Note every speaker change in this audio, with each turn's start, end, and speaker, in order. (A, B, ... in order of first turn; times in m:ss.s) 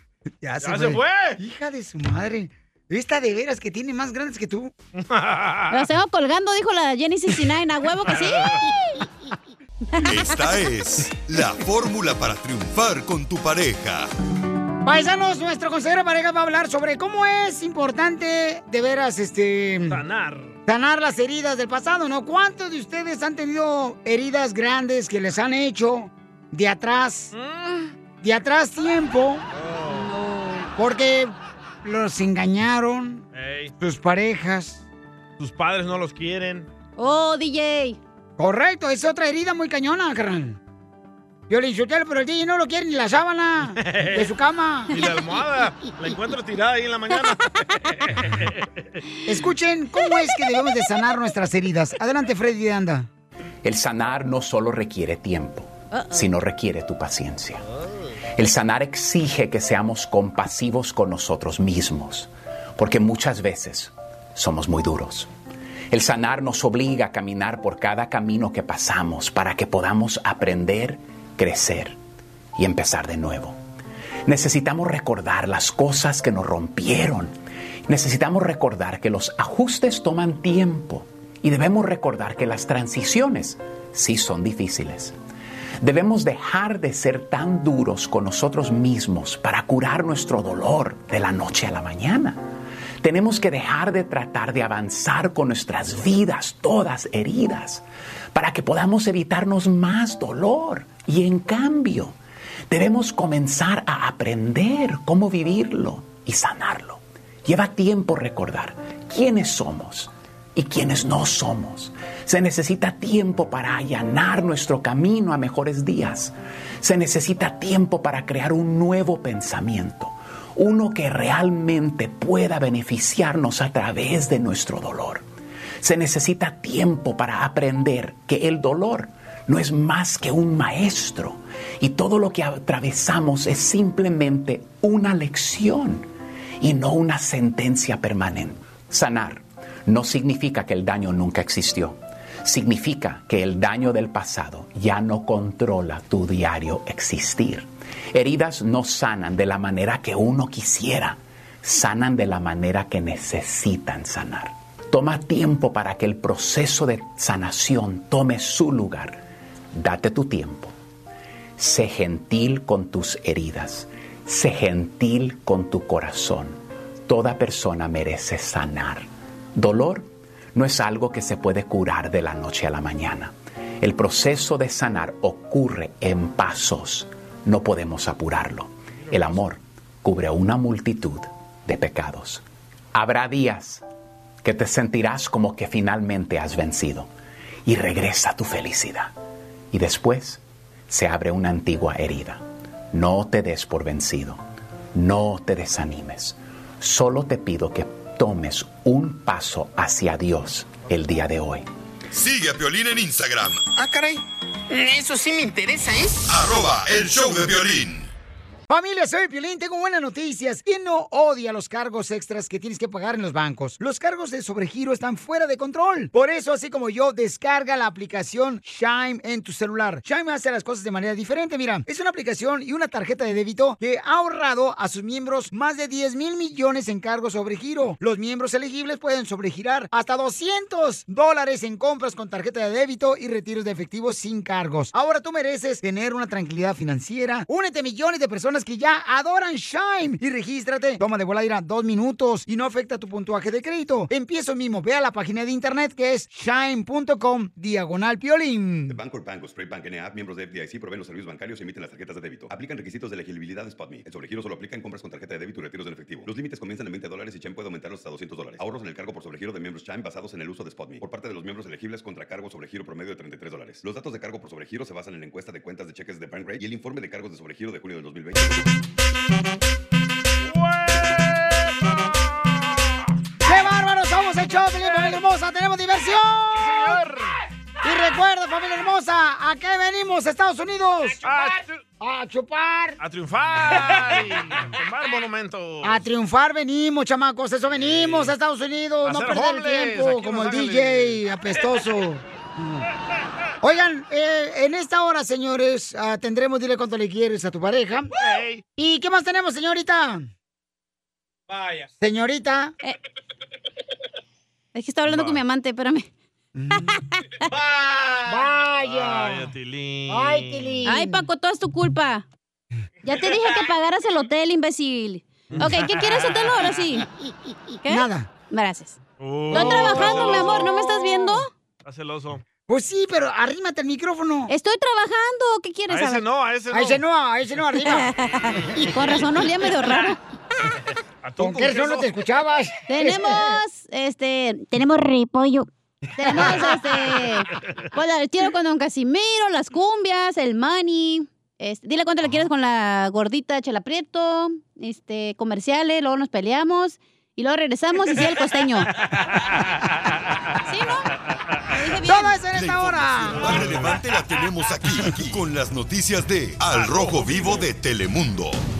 0:00.4-0:04.7 A
0:00.6-0:01.4 B
0:05.0-0:05.8 B
0:05.7-0:08.5 C
0:08.1-0:08.6 B
0:10.0-0:14.1 D
0:14.8-0:20.0 A
0:19.9-0:20.6 B
0:20.7-0:27.3 A
0:27.3-0:27.9 B
0:28.2-0:29.4 A
0:29.5-0:30.1 B
0:29.9-0:30.7 C
0:30.8-0:33.2 A
0:33.3-0:33.7 B
0:33.8-0:34.8 A
0:35.4-0:36.7 B
0:37.0-0:38.0 C
0:38.4-0:40.6 A
0:41.5-0:44.9 A
0:43.8-0:44.3 B
0:44.9-0:48.7 B
0:49.3-0:53.1 A
0:53.6-0:57.6 E
0:55.9-0:56.2 C
0:58.4-1:05.3 E
1:05.9-1:12.0 E
1:12.6-1:13.6 E
1:14.2-1:17.3 E
1:17.9-1:25.1 E
1:25.8-1:32.4 E
1:33.0-1:42.1 E
1:42.7-2:05.2 E
2:05.8-2:16.1 E
2:16.6-2:39.2 E
2:39.7-2:40.7 E
2:41.6-3:02.4 E
3:02.9-3:03.8 E
3:04.4-3:07.1 E
3:07.6-3:09.1 E
3:09.7-3:14.4 E
3:14.9-3:21.6 E
3:22.1-3:23.6 D
3:23.8-3:26.3 F
3:26.2-3:28.1 D
3:28.7-4:09.0 A
4:08.9-4:28.7 G
4:30.4-4:33.0 B
4:33.4-4:37.0 A
4:34.9-4:35.2 B
4:36.6-4:37.3 B
4:37.8-4:41.2 A
4:41.2-4:41.8 B
4:42.0-4:43.0 A
4:43.0-4:46.0 B
4:45.8-4:52.2 A
4:47.7-4:48.3 B
4:49.0-4:51.2 B
4:53.6-4:58.1 A
4:58.2-4:58.6 B
4:58.8-5:00.3 A
5:01.5-5:01.8 B
5:02.0-5:02.7 A
5:04.7-5:06.1 C
5:05.1-5:05.4 B
5:06.5-5:07.0 A
5:06.8-5:07.4 C
5:07.5-5:10.8 B
5:08.3-5:09.5 A
5:10.1-5:11.2 A
5:10.8-5:12.2 C
5:13.0-5:17.0 C
5:15.5-5:16.4 B
5:17.8-5:19.0 C
5:17.8-5:18.3 A
5:19.2-5:20.9 B
5:19.5-5:20.8 A
5:19.5-5:21.5 C
5:21.8-5:22.4 B
5:22.7-5:24.5 A
5:24.5-5:26.2 C
5:25.9-5:27.0 B
5:26.7-5:28.1 A
5:27.8-5:30.2 C
5:28.5-5:28.8 B
5:31.2-5:32.1 B
5:31.4-5:33.6 A
5:32.9-5:48.9 C
5:36.2-5:36.7 A
5:50.6-5:51.1 C
5:51.7-5:52.4 C
5:52.0-5:53.8 A
5:52.5-5:58.6 D
5:53.2-5:53.8 B
5:56.8-5:57.5 B